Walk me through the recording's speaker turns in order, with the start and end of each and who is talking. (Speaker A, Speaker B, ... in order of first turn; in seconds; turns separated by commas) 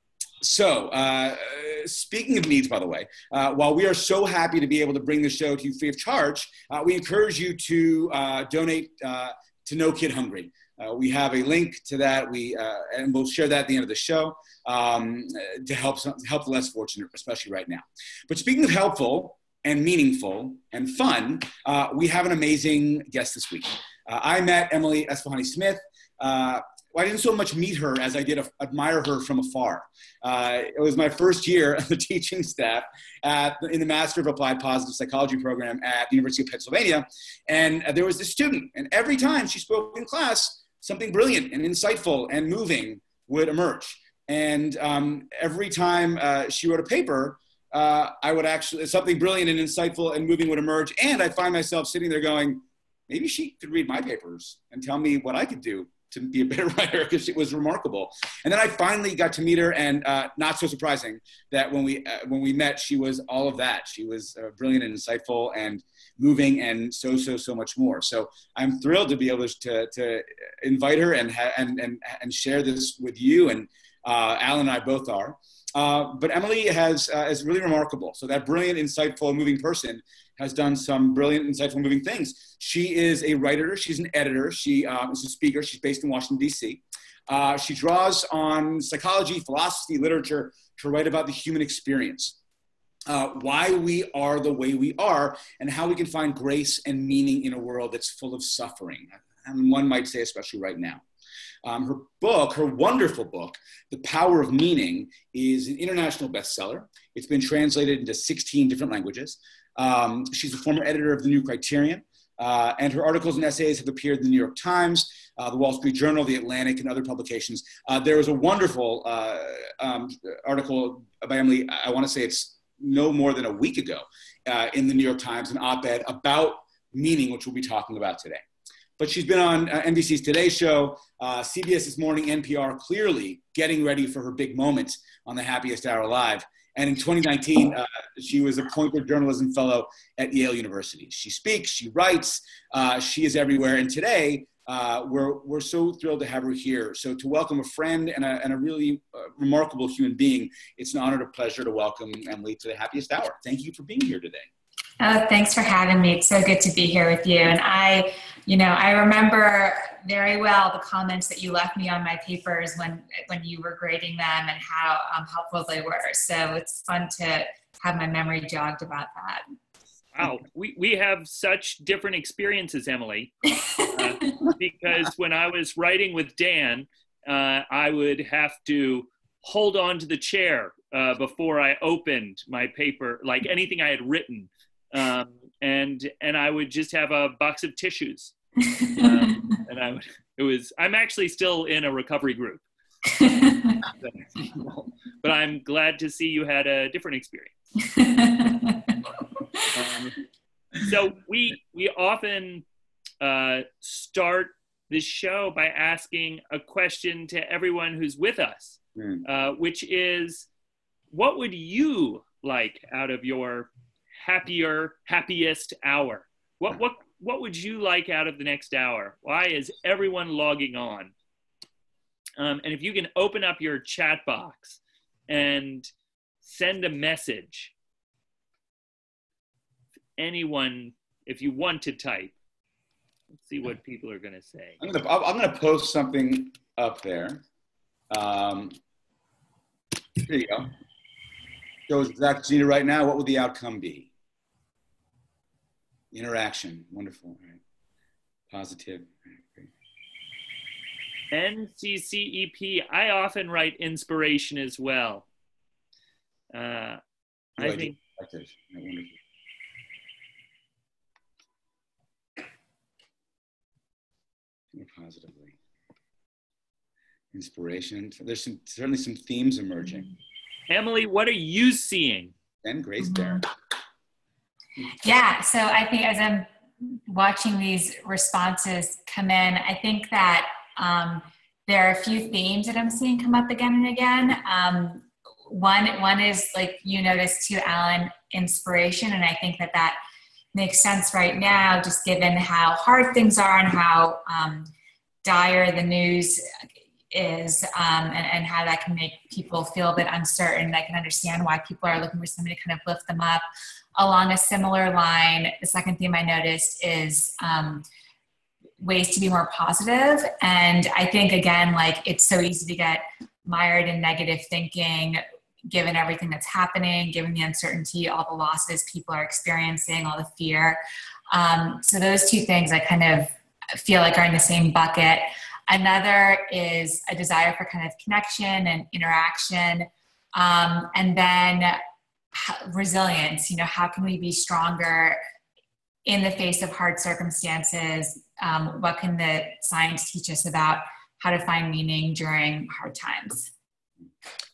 Speaker A: 0.4-92.3, Speaker A: 93.1-101.0, Speaker A: 101.6-128.4, Speaker A: 129.0-154.5, Speaker B: 155.0-169.4, Speaker C: 170.2-188.3, Speaker B: 188.7-189.4, Speaker C: 188.9-192.7, Speaker B: 193.1-193.8, Speaker C: 194.4-197.5, Speaker B: 197.8-199.0, Speaker C: 199.7-200.2, Speaker C: 200.8-202.6, Speaker C: 203.2-210.5, Speaker A: 209.0-209.2, Speaker C: 211.1-221.1, Speaker C: 222.4-225.9, Speaker C: 226.4-227.7, Speaker C: 230.2-232.3, Speaker C: 233.4-234.8, Speaker A: 234.8-237.4, Speaker A: 238.1-238.8, Speaker A: 240.2-240.7, Speaker A: 241.9-244.1, Speaker A: 246.1-247.6, Speaker A: 248.5-249.7, Speaker C: 251.3-255.3, Speaker C: 256.5-257.0, Speaker C: 257.6-258.0, Speaker A: 257.6-259.2, Speaker A: 264.7-265.5, Speaker A: 267.3-270.1, Speaker C: 270.7-272.3, Speaker A: 272.6-273.4, Speaker B: 273.0-273.4, Speaker B: 275.0-290.0, Speaker B: 290.5-294.7, Speaker B: 295.2-296.5, Speaker B: 297.1-303.4, Speaker B: 304.0-307.8, Speaker B: 308.8-320.8, Speaker B: 321.3-331.8, Speaker B: 332.3-335.2, Speaker B: 336.1-343.5